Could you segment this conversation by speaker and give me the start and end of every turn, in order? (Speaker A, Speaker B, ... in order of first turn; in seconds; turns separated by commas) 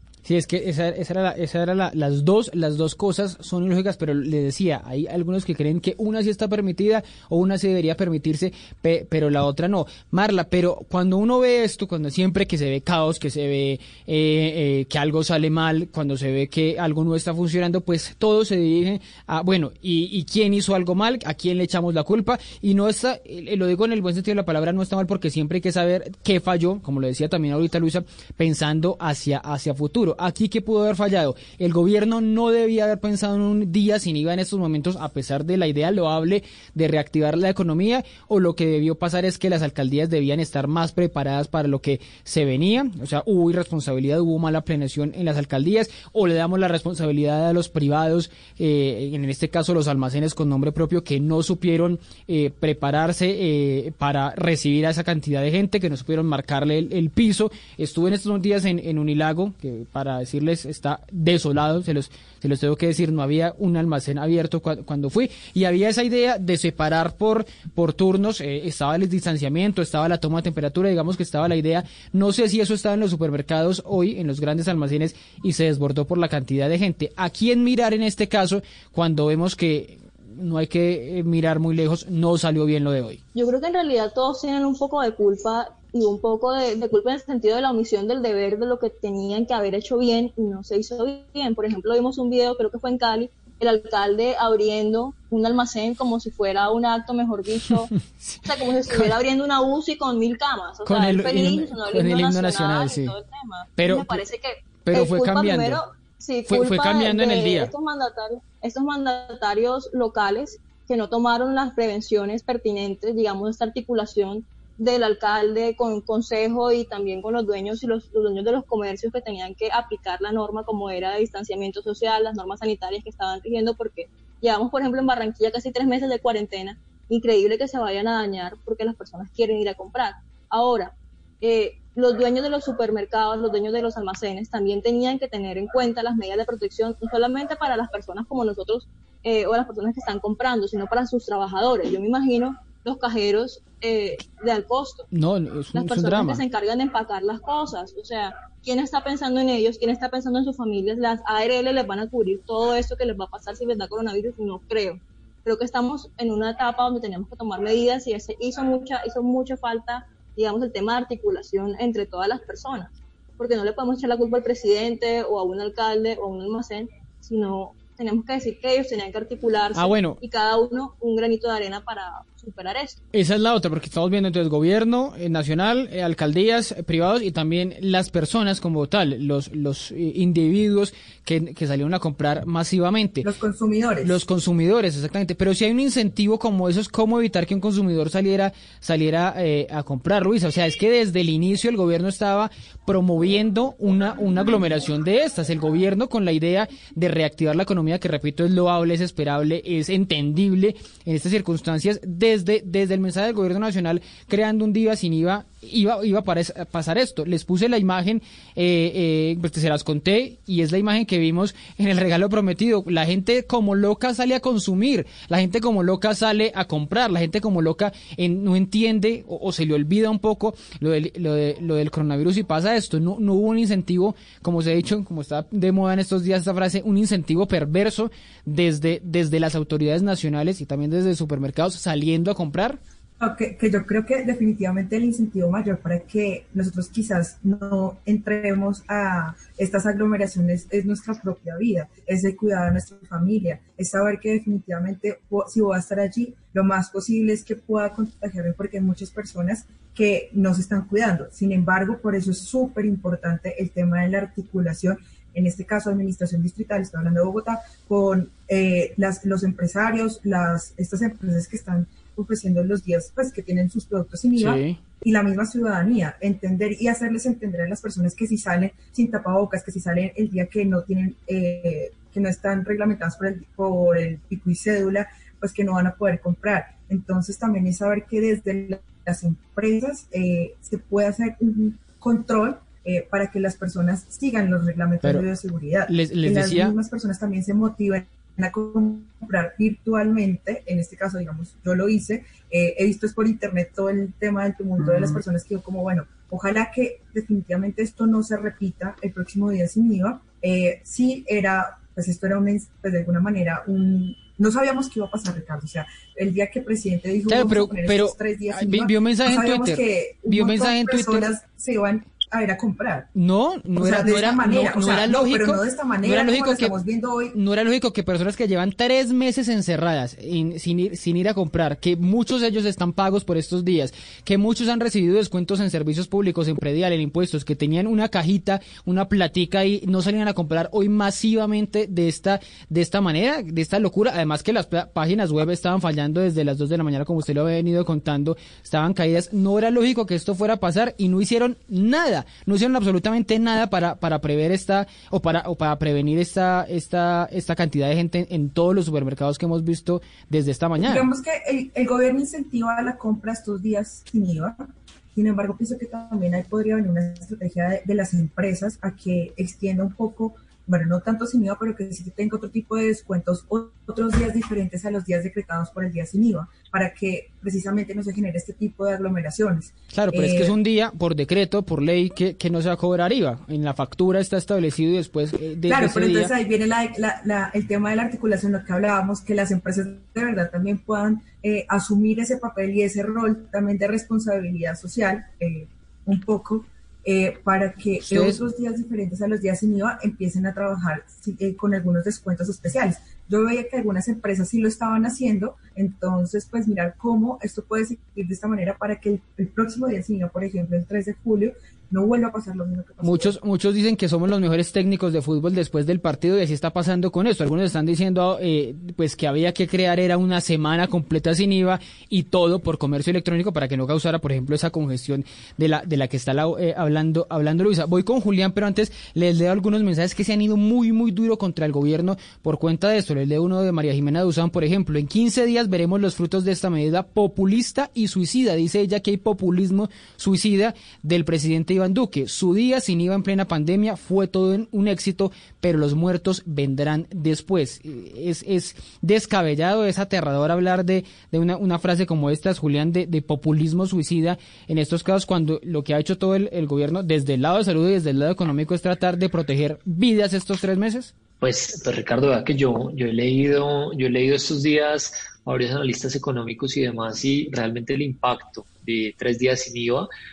Speaker A: 0.2-83.2, Speaker B: 83.3-97.9, Speaker A: 97.7-99.1, Speaker B: 98.4-145.1, Speaker A: 100.8-103.1, Speaker A: 103.8-104.2, Speaker A: 104.8-105.8, Speaker A: 106.5-107.7, Speaker A: 145.1-146.4, Speaker B: 145.7-173.0, Speaker A: 169.7-170.2, Speaker A: 173.1-183.3, Speaker C: 183.2-184.2, Speaker A: 184.0-232.8, Speaker C: 233.2-313.1, Speaker A: 264.4-264.8, Speaker A: 285.9-286.7, Speaker A: 307.3-311.3, Speaker A: 313.1-316.8, Speaker C: 313.8-317.3, Speaker A: 317.3-351.1, Speaker C: 350.8-370.5, Speaker A: 369.9-376.3, Speaker C: 375.7-403.3, Speaker A: 388.0-388.4, Speaker A: 403.0-451.1, Speaker D: 451.4-460.1